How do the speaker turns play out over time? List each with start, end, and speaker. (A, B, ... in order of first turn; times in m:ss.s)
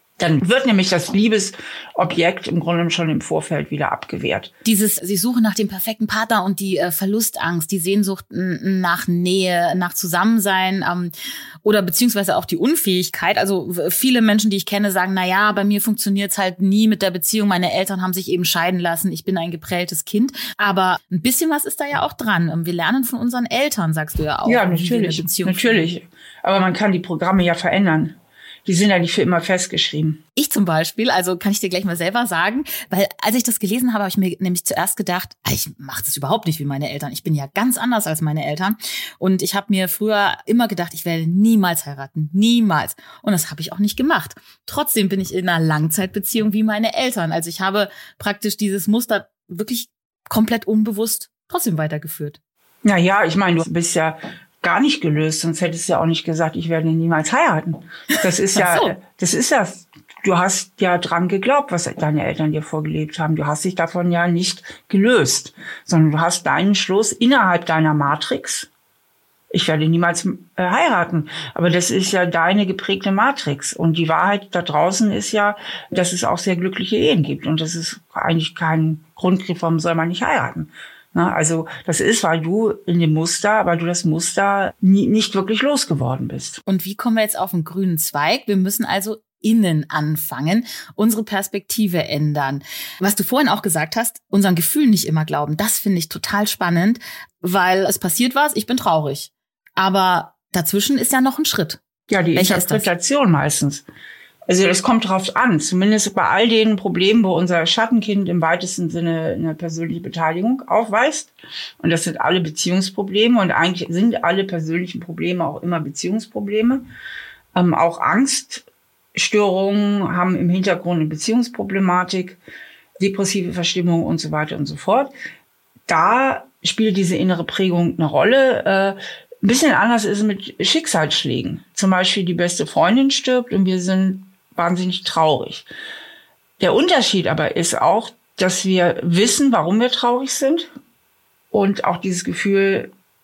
0:00.2-0:04.5 A
0:04.6-0:11.1 B
0:11.6-0:25.8 B
0:24.4-0:30.2 A
0:30.4-0:52.4 B
0:52.8-1:08.7 A
0:58.6-0:58.9 B
1:09.5-1:26.6 A
1:26.7-1:41.8 B
1:42.1-1:43.8 A
1:42.4-1:42.9 B
1:44.5-1:56.9 A
1:57.5-2:02.4 A
2:03.0-2:05.1 A
2:05.9-2:15.7 A
2:16.6-2:20.7 A
2:21.5-2:22.9 A